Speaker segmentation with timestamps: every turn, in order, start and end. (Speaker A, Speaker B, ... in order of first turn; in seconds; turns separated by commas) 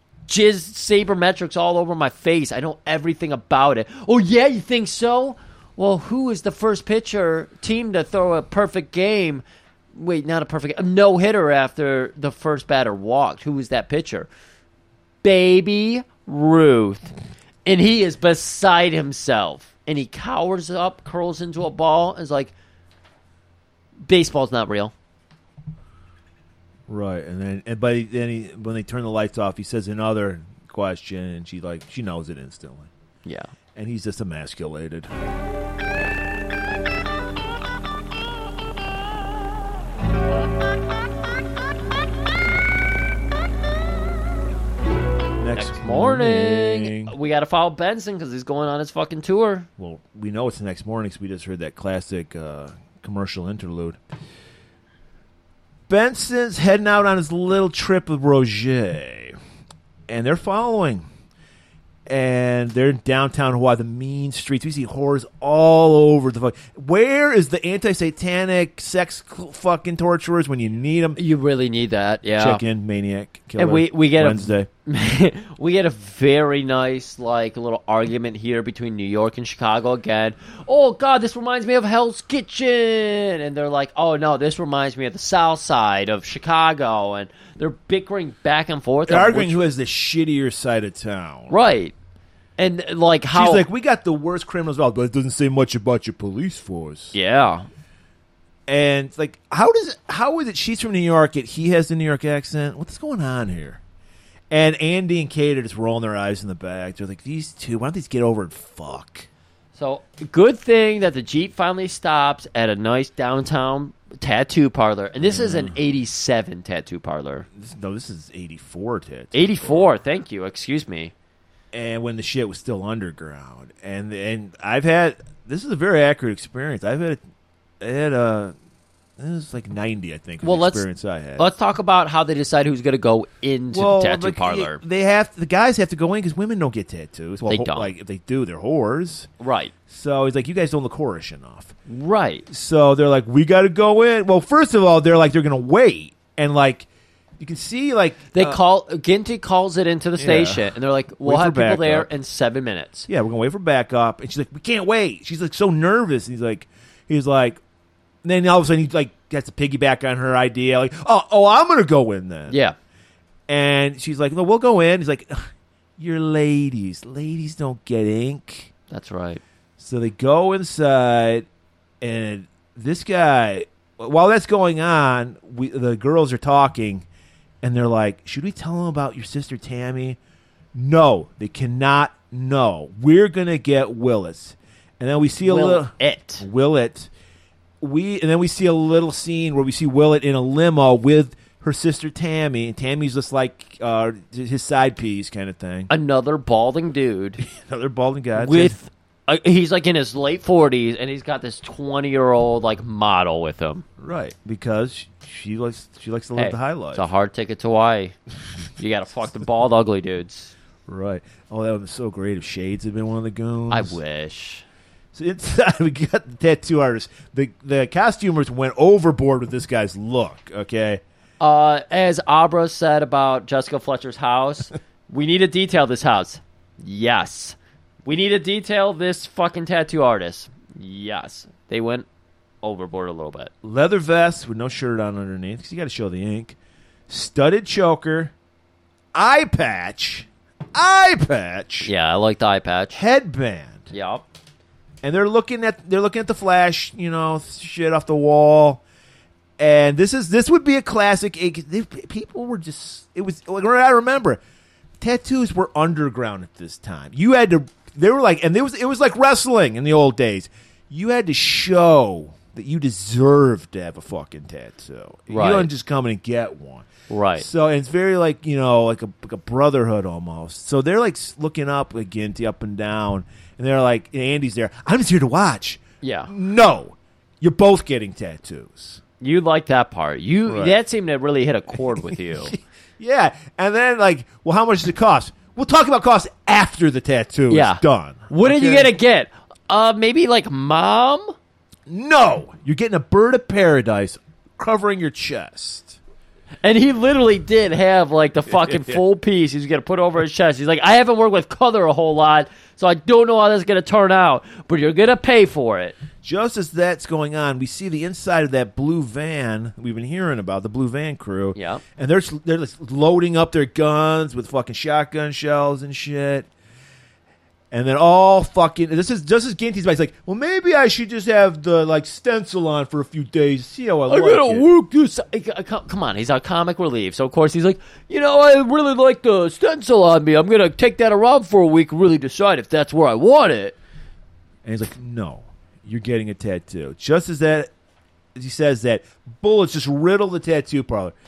Speaker A: 0.3-9.4, Speaker A: 9.9-14.3, Speaker A: 15.2-17.1, Speaker A: 17.6-22.5, Speaker A: 24.1-24.9, Speaker B: 26.9-32.9, Speaker B: 33.7-35.1, Speaker B: 45.4-47.1, Speaker A: 45.5-49.7, Speaker B: 49.8-54.0, Speaker B: 55.9-59.4, Speaker B: 60.1-61.0, Speaker B: 62.1-71.2, Speaker A: 71.2-72.6, Speaker B: 72.3-74.7, Speaker A: 73.6-89.6, Speaker B: 89.1-91.5, Speaker A: 91.5-91.9, Speaker A: 92.6-93.7, Speaker B: 93.3-97.1, Speaker A: 97.1-97.7, Speaker B: 98.7-103.8, Speaker B: 104.5-109.3, Speaker A: 109.8-117.5, Speaker B: 115.2-115.7, Speaker B: 117.5-119.9, Speaker A: 119.3-121.1, Speaker B: 121.7-127.2, Speaker B: 127.8-128.5, Speaker B: 129.2-131.5, Speaker A: 130.4-130.8, Speaker A: 131.4-134.8, Speaker B: 133.7-139.3, Speaker A: 137.4-137.9, Speaker A: 139.4-139.7, Speaker B: 139.9-141.7, Speaker A: 141.9-142.4, Speaker B: 142.5-146.9, Speaker B: 147.4-148.6, Speaker A: 148.3-153.1, Speaker B: 150.2-152.1, Speaker B: 153.1-157.6, Speaker B: 158.2-162.6, Speaker A: 162.5-162.7, Speaker B: 163.5-168.7, Speaker A: 168.9-169.4, Speaker B: 169.8-171.4, Speaker B: 172.0-177.1, Speaker B: 177.6-180.2, Speaker B: 180.7-187.1, Speaker A: 185.4-186.4, Speaker B: 187.8-195.9, Speaker A: 195.9-197.4, Speaker B: 197.4-198.8, Speaker A: 198.3-203.8, Speaker B: 204.0-207.1, Speaker A: 206.3-208.2, Speaker A: 208.8-210.5, Speaker B: 210.9-214.0, Speaker A: 213.7-214.6, Speaker B: 215.1-221.0, Speaker A: 221.4-232.1, Speaker A: 232.6-233.5, Speaker B: 233.6-236.6, Speaker B: 237.1-238.3, Speaker B: 239.1-241.9, Speaker A: 241.8-243.0, Speaker B: 242.9-243.9, Speaker A: 243.9-244.2, Speaker B: 245.0-248.8, Speaker B: 249.6-254.4, Speaker B: 255.0-279.0, Speaker A: 265.3-265.7, Speaker A: 267.1-267.4, Speaker A: 276.0-276.3, Speaker A: 279.2-282.6, Speaker B: 280.5-280.7, Speaker B: 282.4-288.9, Speaker A: 287.5-291.3, Speaker B: 291.9-296.0, Speaker A: 296.6-306.0, Speaker B: 298.5-299.0, Speaker B: 306.2-316.5, Speaker A: 311.5-311.8, Speaker B: 317.7-324.7, Speaker A: 324.1-333.8, Speaker B: 334.6-337.7, Speaker B: 338.3-341.1